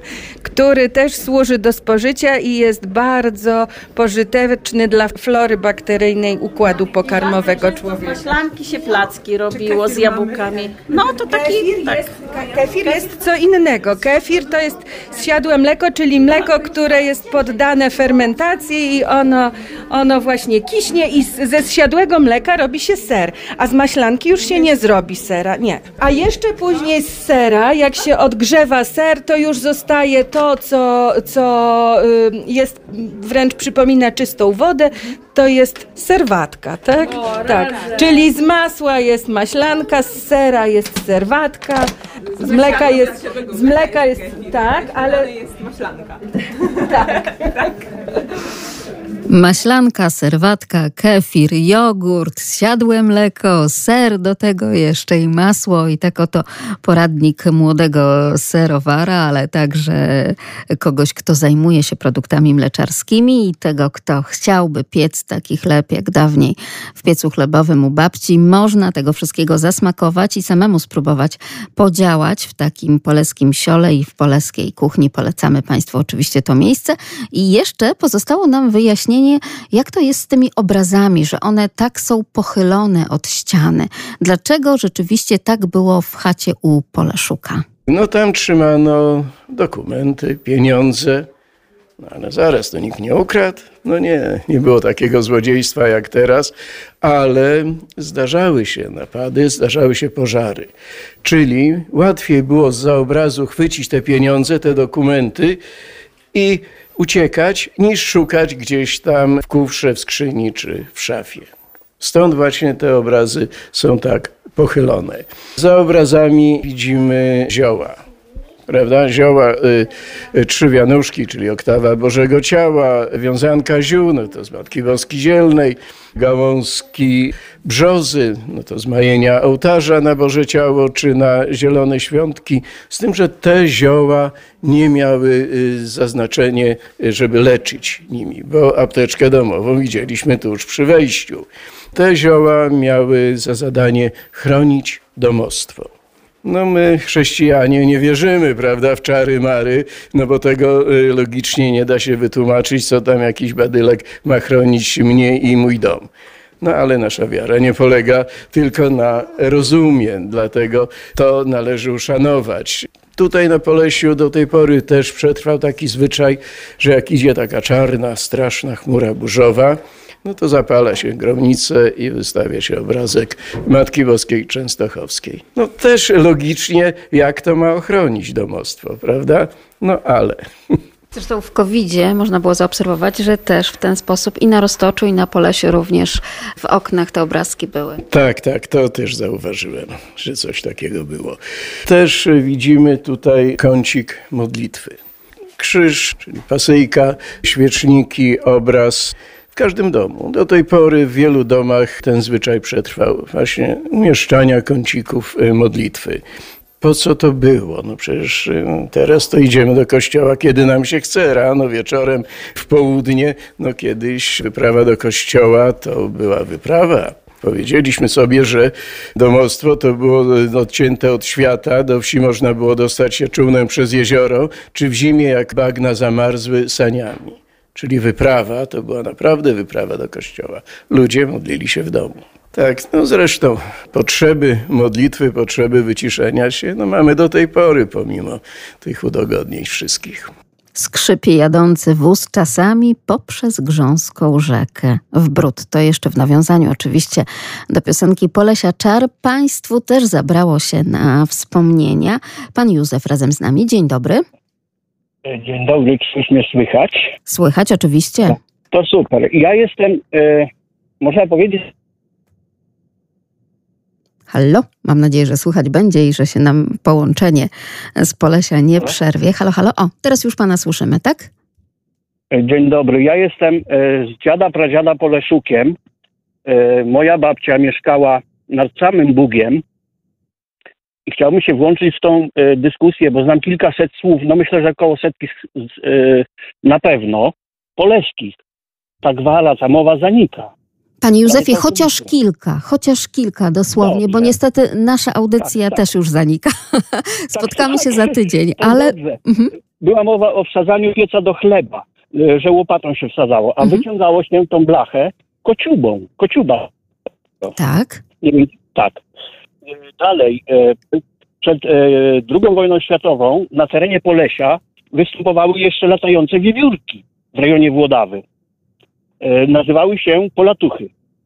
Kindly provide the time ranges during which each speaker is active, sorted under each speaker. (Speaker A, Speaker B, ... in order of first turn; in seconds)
Speaker A: 0.4-8.4, 9.5-46.1, 46.7-48.0
Speaker B: 7.0-12.1
Speaker C: 49.3-87.7, 181.1-188.0, 240.8-254.2, 257.3-258.4, 264.3-271.3, 291.0-299.5, 307.6-308.0
Speaker D: 87.9-91.3, 92.0-100.7, 101.2-105.6, 106.3-111.5, 112.0-118.0, 118.7-145.9, 146.4-156.1, 156.6-180.7, 188.1-195.0, 195.6-206.2, 206.8-240.3
Speaker E: 255.3-257.1, 258.7-260.5, 261.0-261.7, 272.3-275.8, 276.5-279.6, 281.1-288.4, 289.0-290.5, 291.3-292.1, 293.8-294.4, 295.4-295.8, 297.3-299.2, 299.8-306.7, 308.2-309.0, 309.8-318.2, 319.2-320.9